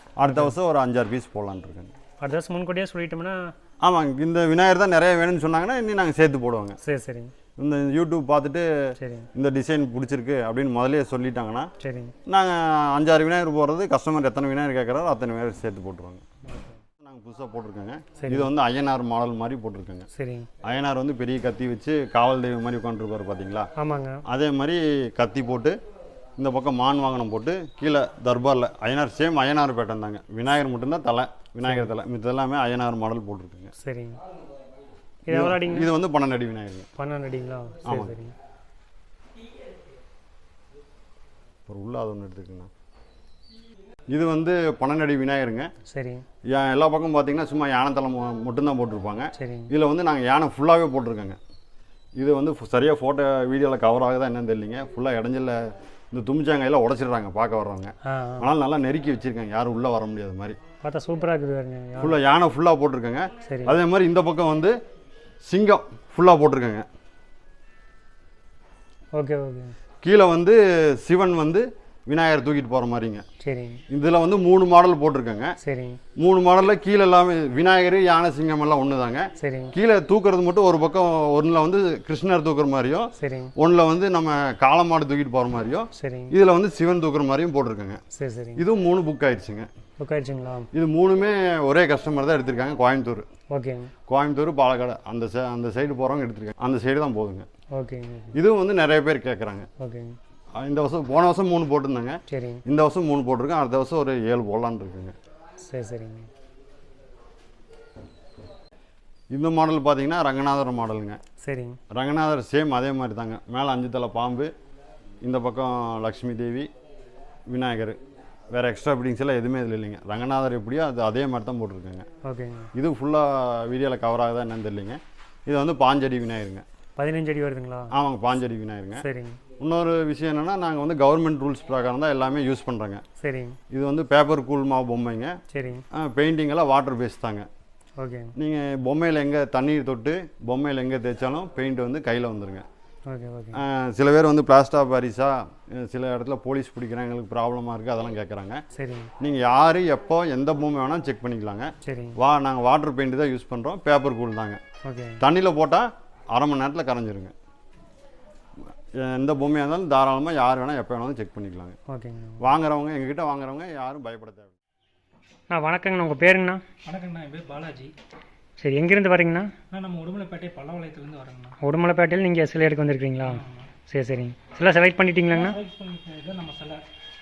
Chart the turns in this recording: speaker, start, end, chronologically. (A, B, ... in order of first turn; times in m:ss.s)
0:00.2-0:01.9 A
0:00.3-0:00.5 B
0:02.2-0:03.5 B
0:03.8-0:06.8 A
0:06.8-0:07.3 B
0:07.6-0:11.7 A
0:09.0-0:09.3 B
0:11.8-0:12.1 B
0:12.3-0:16.2 A
0:16.5-0:16.8 B
0:17.0-0:20.1 A
0:18.2-0:18.5 B
0:20.1-0:20.5 B
0:20.6-0:23.7 A
0:23.8-0:24.2 B
0:24.3-0:25.8 A
0:26.4-0:33.7 A
0:31.6-0:31.9 B
0:33.8-0:34.2 B
0:35.3-0:35.9 B
0:35.3-0:36.9 A
0:37.0-0:38.3 B
0:37.9-0:38.1 A
0:41.7-0:42.7 A
0:44.1-0:45.7 A
0:45.9-0:46.2 B
0:46.5-0:51.4 A
0:49.4-0:49.7 B
0:52.2-1:00.6 A
0:58.0-0:58.5 B
1:00.8-1:02.2 B
1:02.0-1:04.8 A
1:03.4-1:03.8 B
1:05.4-1:06.9 A
1:09.1-1:09.8 B
1:10.0-1:13.3 A
1:13.4-1:13.8 B
1:13.9-1:15.6 A
1:15.6-1:16.0 B
1:16.2-1:28.0 A
1:19.4-1:19.7 B
1:23.2-1:23.5 B
1:26.0-1:26.3 B
1:28.1-1:28.6 B
1:28.6-1:29.7 A
1:30.0-1:30.7 B
1:30.7-1:33.3 A
1:33.5-1:33.9 B
1:34.1-1:37.5 A
1:37.7-1:38.4 B
1:38.3-1:39.7 A
1:39.8-1:40.2 B
1:40.6-1:45.2 A
1:42.3-1:42.6 B
1:45.6-1:46.3 B
1:49.3-1:51.2 A
1:51.4-1:51.8 B
1:51.9-1:54.5 A
1:55.2-1:56.7 A
1:57.5-1:58.0 A
1:58.5-2:02.1 A
2:02.2-2:02.7 B
2:02.7-2:06.6 A
2:07.0-2:07.9 B
2:07.9-2:09.1 A
2:09.0-2:09.4 B
2:09.6-2:13.0 A
2:13.2-2:13.6 B
2:13.7-2:15.4 A
2:15.5-2:15.8 B
2:15.9-2:17.5 A
2:18.0-2:18.4 B
2:18.4-2:22.7 A
2:23.1-2:23.6 B
2:23.5-2:28.6 A
2:28.7-2:29.1 B
2:29.2-2:34.6 A
2:31.8-2:32.2 B
2:34.8-2:35.2 B
2:35.2-2:37.3 A
2:39.0-2:41.8 A
2:41.9-2:42.4 B
2:42.4-2:44.5 A
2:45.5-2:46.6 B
2:46.8-2:47.9 C
2:48.6-2:49.5 B
2:49.7-2:51.6 C
2:51.6-2:55.6 B
2:53.2-2:53.7 C
2:55.3-2:56.8 C